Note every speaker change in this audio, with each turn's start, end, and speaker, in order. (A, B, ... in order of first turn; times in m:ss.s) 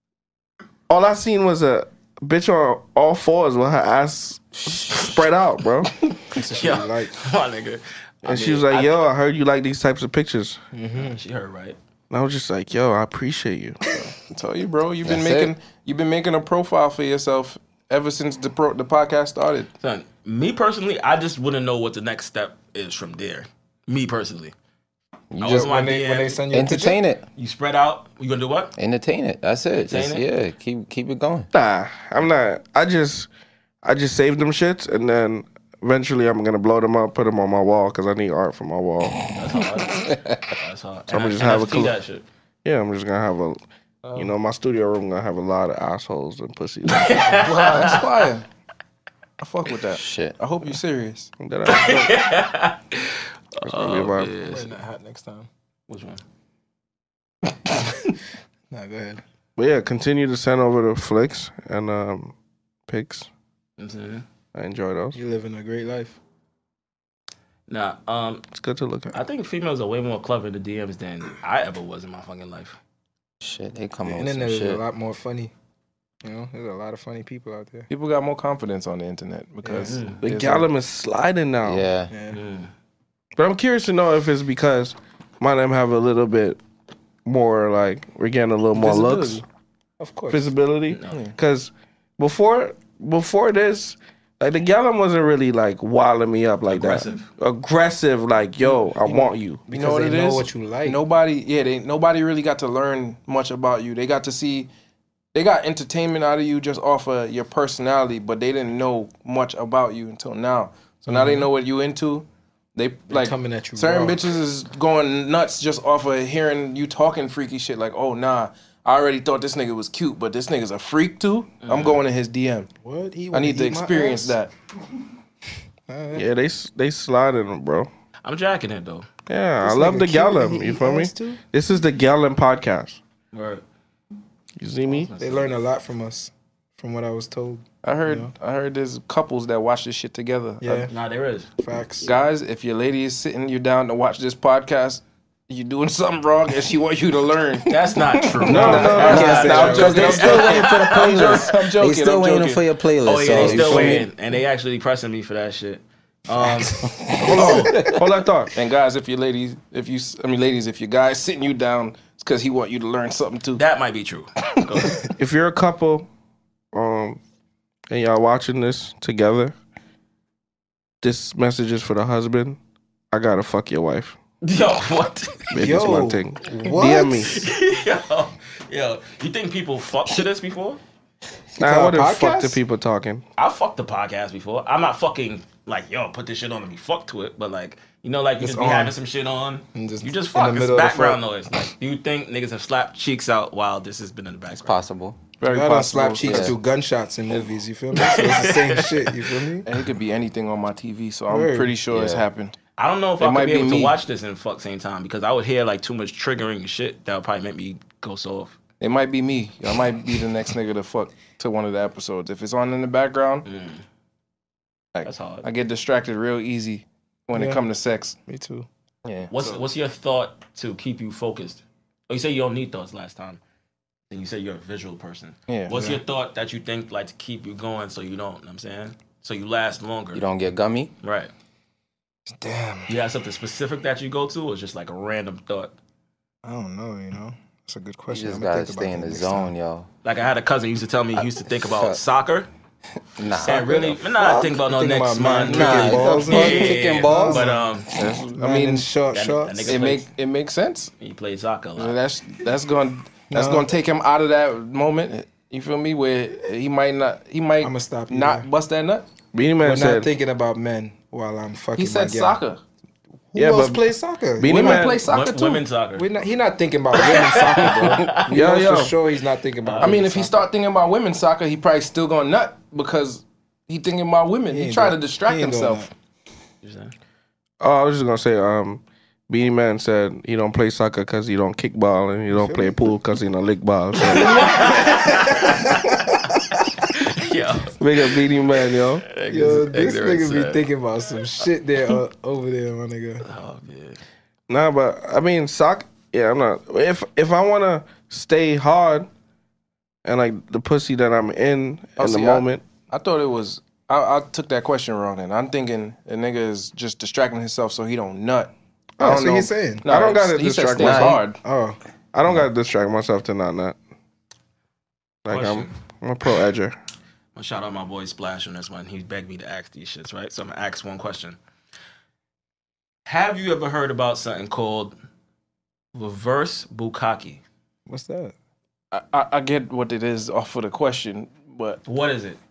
0:00.9-0:05.9 A
0:06.3-0:07.2 B
0:06.6-0:08.9 C
0:08.2-0:10.6 A
0:10.7-0:11.2 B
0:11.0-0:11.8 C
0:12.1-0:13.8 A
0:13.9-0:19.7 D
0:15.0-0:15.5 E
0:19.8-0:24.5 C
0:25.3-0:25.7 E
0:25.4-0:26.4 C
0:25.4-0:27.0 B
0:26.5-0:27.2 E
0:27.4-0:28.7 C
0:28.8-0:31.5 E
0:29.8-0:30.2 C
0:31.5-0:33.3 A
0:33.8-0:39.2 A
0:39.3-0:42.2 C
0:40.1-0:40.4 E
0:41.1-0:41.9 A
0:42.6-0:43.6 A
0:44.0-0:44.3 B
0:44.1-0:47.5 A
0:46.9-0:48.3 C
0:47.6-0:48.4 D
0:49.4-0:51.3 D
0:49.9-0:50.4 E
0:51.4-0:52.2 A
0:51.6-0:54.8 C
0:53.6-0:54.3 A
0:54.4-0:55.5 B
0:55.9-0:56.2 C
0:58.7-0:59.2 B
0:59.6-1:02.3 A
1:02.9-1:03.3 A
1:03.8-1:04.2 C
1:04.5-1:05.2 A
1:05.1-1:06.2 B
1:07.7-1:08.5 C
1:08.5-1:09.2 A
1:09.1-1:12.8 C
1:13.4-1:14.8 E
1:14.1-1:15.5 B
1:16.2-1:17.9 B
1:17.9-1:20.7 D
1:19.6-1:20.0 B
1:19.8-1:20.2 C
1:20.2-1:21.9 A
1:21.6-1:22.1 E
1:22.1-1:22.4 B
1:22.3-1:22.7 C
1:23.4-1:26.6 A
1:27.2-1:29.4 A
1:28.7-1:29.4 D
1:30.0-1:30.5 B
1:30.3-1:39.6 A
1:30.9-1:31.2 C
1:31.1-1:31.4 D
1:36.7-1:37.3 C
1:38.6-1:41.0 B
1:39.7-1:44.7 D
1:45.3-2:02.7 D
1:51.1-1:51.5 B
1:53.1-1:54.2 B
2:01.6-2:02.0 C
2:02.8-2:04.4 B
2:03.3-2:04.5 D
2:05.9-2:06.3 B
2:06.1-2:07.9 A
2:08.2-2:09.1 C
2:09.3-2:13.0 A
2:09.6-2:11.4 B
2:13.3-2:13.6 C
2:14.6-2:15.1 A
2:14.9-2:15.6 C
2:15.2-2:18.3 B
2:17.8-2:20.9 D
2:20.6-2:20.9 B
2:20.9-2:21.5 C
2:21.6-2:22.1 B
2:22.0-2:32.6 D
2:27.7-2:31.5 C
2:28.4-2:30.0 A
2:28.5-2:30.4 B
2:29.0-2:34.1 E
2:33.0-2:37.8 C
2:33.3-2:34.0 D
2:36.4-2:38.0 B
2:37.2-2:38.5 A
2:37.3-2:37.8 D
2:38.5-2:43.6 D
2:43.6-2:45.0 C
2:45.2-2:46.1 A
2:46.7-2:47.2 A
2:47.9-2:49.5 A
2:51.0-2:52.6 A
2:53.1-2:54.2 A
2:54.4-2:55.5 C
2:55.5-2:57.5 A
2:55.5-2:57.4 B
2:57.3-3:00.8 C
3:01.6-3:02.6 B
3:01.6-3:03.2 A
3:03.4-3:14.8 C
3:08.4-3:08.9 B
3:09.7-3:11.2 B
3:14.5-3:15.2 E
3:15.4-3:16.6 D
3:15.4-3:19.7 B
3:16.2-3:16.6 E
3:17.9-3:19.2 C
3:19.6-3:22.5 D
3:21.3-3:21.7 B
3:21.9-3:22.3 E
3:22.8-3:28.6 C
3:23.2-3:24.0 D
3:28.8-3:33.4 D
3:33.4-3:33.8 C
3:34.9-3:38.2 D
3:35.0-3:35.5 C
3:37.3-3:37.7 B
3:38.2-3:38.7 B
3:39.0-3:39.6 D
3:39.3-3:43.4 C
3:44.1-3:50.2 C
3:45.5-3:46.0 D
3:50.1-3:50.9 E
3:51.0-3:51.3 C
3:52.3-3:52.9 B
3:52.9-3:55.7 C
3:56.4-3:59.5 B
3:58.1-3:59.9 E
4:00.0-4:02.5 C
4:01.6-4:02.0 E
4:03.2-4:03.6 E
4:03.4-4:07.9 C
4:03.4-4:03.9 D
4:04.1-4:04.6 E
4:04.6-4:07.7 B
4:05.4-4:07.5 E
4:07.9-4:08.9 D
4:08.4-4:09.8 B
4:09.1-4:10.1 C
4:09.6-4:10.9 D
4:11.0-4:12.0 C
4:11.8-4:19.0 D
4:13.3-4:13.7 B
4:17.6-4:18.5 B
4:19.3-4:20.1 A
4:19.6-4:22.4 B
4:21.8-4:22.6 D
4:23.3-4:25.0 B
4:23.4-4:25.0 A
4:24.4-4:25.6 D
4:25.0-4:26.1 C
4:26.0-4:30.5 B
4:26.9-4:28.3 C
4:28.2-4:28.9 A
4:29.6-4:30.0 C
4:29.8-4:35.9 D
4:34.5-4:35.9 B
4:36.6-4:36.9 C
4:37.6-4:44.5 A
4:42.3-4:42.8 B
4:44.1-4:48.2 C
4:44.1-4:46.4 B
4:47.8-4:49.0 A
4:49.0-4:50.6 C
4:49.3-4:53.2 B
4:53.2-4:54.0 C
4:54.5-4:59.1 A
5:00.0-5:02.6 A
5:02.0-5:11.4 D
5:09.0-5:09.3 A
5:09.0-5:09.9 B
5:09.8-5:11.2 A
5:10.8-5:11.2 E
5:10.8-5:11.8 B
5:12.1-5:13.8 A
5:15.2-5:16.8 A
5:15.3-5:15.7 C
5:17.3-5:21.4 C
5:23.0-5:24.9 C
5:25.9-5:27.4 C
5:27.9-5:28.3 B
5:28.9-5:31.8 D
5:31.8-5:32.4 C